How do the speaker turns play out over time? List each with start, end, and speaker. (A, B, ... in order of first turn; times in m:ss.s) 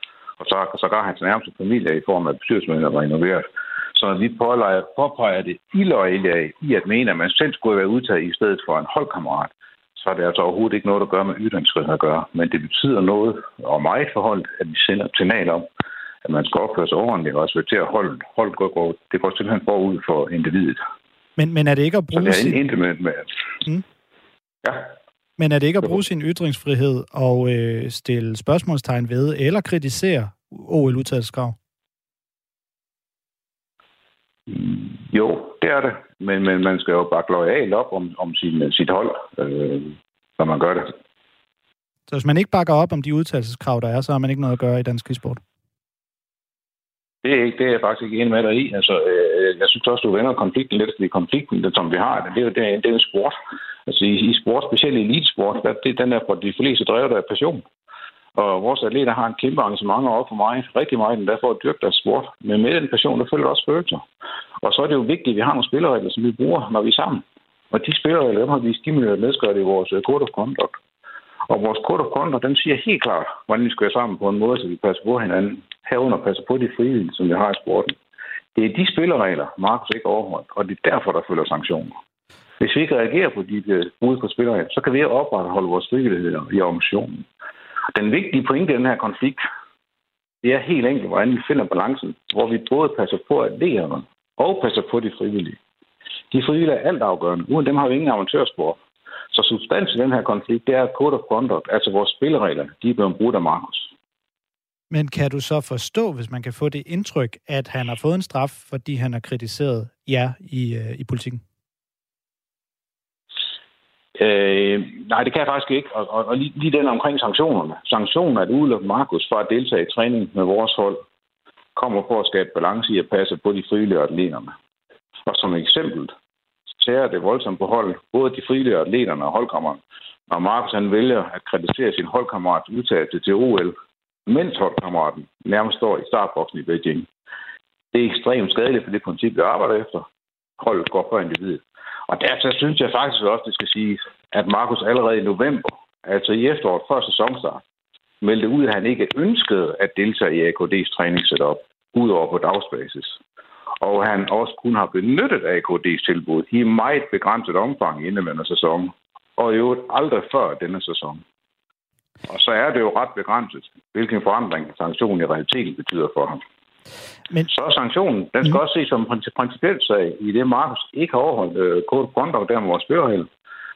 0:00.4-0:15.7 A
0:16.2-0:20.8 A
0:21.4-0:22.6 B
0:22.1-0:23.3 A
0:24.6-0:24.9 A
0:25.4-0:31.6 B
0:34.5-0:40.9 A
0:42.1-0:45.4 B
0:47.2-0:53.4 A
0:53.9-0:57.6 A
0:58.4-1:04.0 A
1:04.6-1:10.8 A
1:11.5-1:18.0 A
1:18.6-1:22.0 A
1:22.6-1:27.2 A
1:27.9-1:29.4 A
1:30.4-1:35.6 A
1:36.3-1:38.8 A
1:39.3-1:43.9 A
1:44.9-1:51.4 B
1:54.2-2:01.0 A
2:01.8-2:04.5 A
2:05.3-2:06.1 A
2:06.8-2:13.8 A
2:14.3-2:17.1 A
2:17.9-2:20.1 A
2:20.6-2:27.6 A
2:28.2-2:33.2 A
2:33.8-2:41.2 A
2:42.3-2:46.4 A
2:47.5-2:53.3 A